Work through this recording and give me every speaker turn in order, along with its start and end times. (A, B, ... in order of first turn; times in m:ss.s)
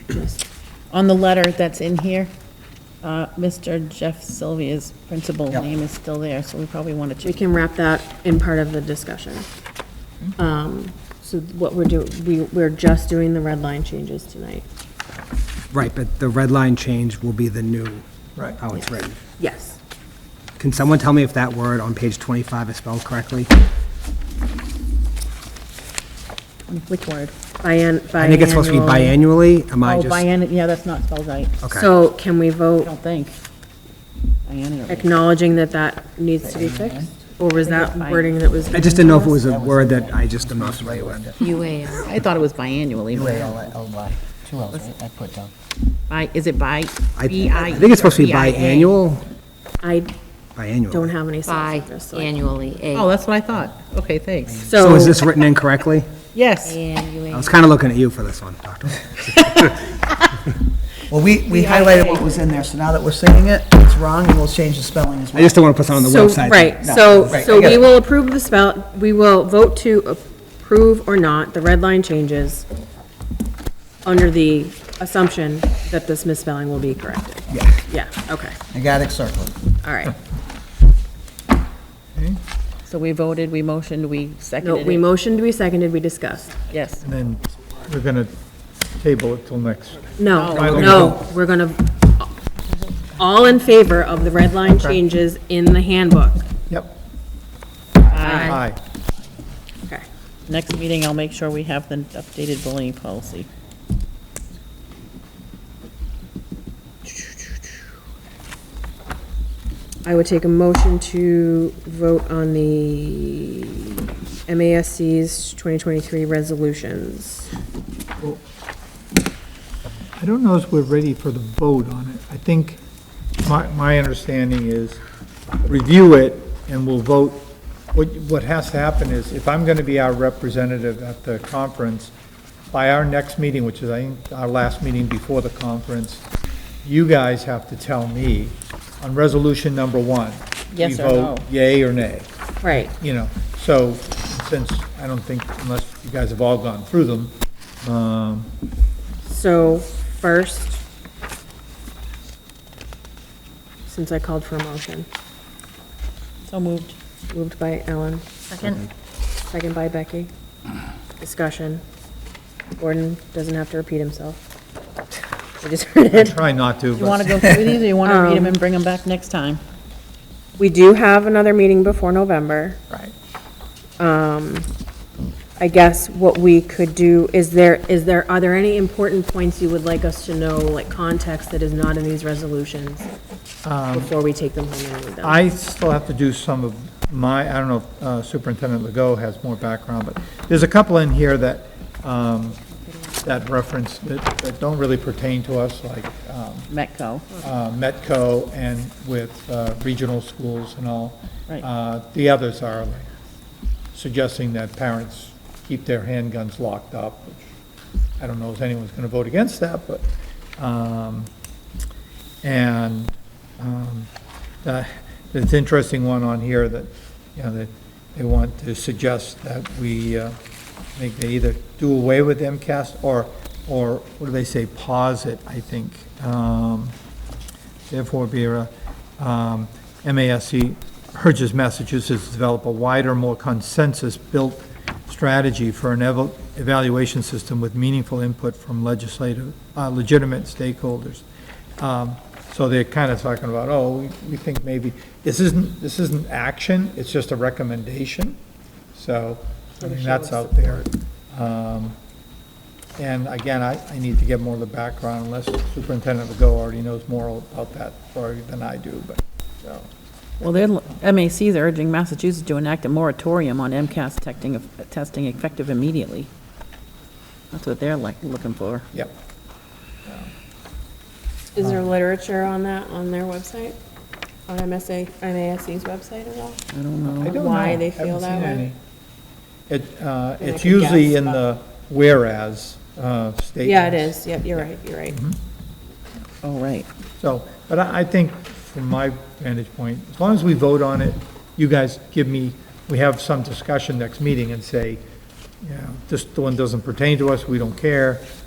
0:00.1-0:00.4 A
0:00.9-0:02.3 B
0:03.0-0:07.4 B
0:07.2-0:09.5 A
0:10.4-0:14.6 A
0:15.7-0:18.0 C
0:18.6-0:19.2 C
0:18.8-0:19.8 A
0:20.6-0:23.5 C
0:26.7-0:27.3 B
0:27.6-0:29.2 A
0:28.1-0:30.2 C
0:29.8-0:31.6 B
0:31.6-0:31.9 C
0:31.7-0:32.9 A
0:32.8-0:33.4 B
0:34.4-0:35.2 B
0:34.9-0:39.4 A
0:36.8-0:37.2 D
0:37.6-0:39.3 B
0:38.7-0:41.3 C
0:39.4-0:41.4 D
0:41.4-0:42.1 E
0:41.9-0:43.7 B
0:43.1-0:45.5 D
0:46.1-0:49.0 B
0:47.2-0:49.2 C
0:49.8-0:50.1 A
0:50.6-0:51.1 C
0:50.9-0:52.4 A
0:51.4-0:53.1 E
0:52.9-0:54.8 B
0:54.5-0:55.2 A
0:54.7-0:56.1 C
0:56.3-0:56.8 B
0:56.6-0:57.6 E
0:57.3-0:59.8 C
0:59.2-1:00.4 B
1:01.1-1:05.7 D
1:01.5-1:02.4 E
1:05.3-1:07.5 C
1:06.0-1:12.6 A
1:06.8-1:07.9 D
1:14.0-1:18.6 A
1:17.5-1:17.8 D
1:18.7-1:19.6 D
1:19.8-1:20.2 A
1:22.8-1:25.0 B
1:24.6-1:26.6 A
1:26.6-1:27.0 B
1:27.0-1:28.3 F
1:29.0-1:31.2 F
1:30.2-1:32.3 A
1:30.3-1:31.1 B
1:33.2-1:36.4 A
1:34.7-1:35.0 F
1:36.7-1:37.0 F
1:38.1-1:38.6 B
1:38.2-1:38.6 A
1:38.4-1:38.8 F
1:40.5-1:43.5 B
1:47.0-1:47.6 A
1:50.0-1:57.5 A
2:00.2-2:02.8 F
2:03.4-2:05.0 F
2:05.6-2:12.1 F
2:12.7-2:16.2 F
2:16.8-2:22.3 F
2:20.7-2:21.5 B
2:22.6-2:22.9 A
2:22.8-2:28.5 F
2:29.2-2:30.8 A
2:33.9-2:35.1 A
2:36.5-2:37.0 B
2:37.3-2:38.2 A
2:39.5-2:40.3 A
2:41.2-2:41.8 A
2:42.8-2:44.4 A
2:45.6-2:46.4 A
2:46.1-2:47.6 F
2:47.0-2:49.6 B
2:48.0-2:48.6 A
2:50.6-2:52.8 A
2:54.0-2:54.7 A
2:55.6-3:03.1 A
3:03.6-3:04.1 F
3:03.9-3:05.4 A
3:05.2-3:12.6 F
3:13.2-3:16.7 F
3:16.7-3:17.2 B
3:17.4-3:23.2 F
3:23.9-3:27.4 F
3:28.2-3:31.3 F
3:32.4-3:34.1 F
3:34.6-3:40.3 F
3:41.0-3:46.9 F
3:47.9-4:01.2 F
4:01.8-4:08.4 F
4:08.9-4:12.0 F
4:09.8-4:10.8 A
4:13.0-4:19.9 F
4:20.4-4:26.3 B
4:27.5-4:28.8 B
4:31.5-4:33.8 A
4:34.5-4:36.6 A
4:36.7-4:37.4 B
4:37.2-4:38.6 A
4:37.2-4:38.8 F
4:39.7-4:44.1 F
4:40.4-4:41.4 A
4:43.6-4:45.2 A
4:46.4-4:46.9 B
4:47.2-4:55.0 F
4:55.6-4:58.3 F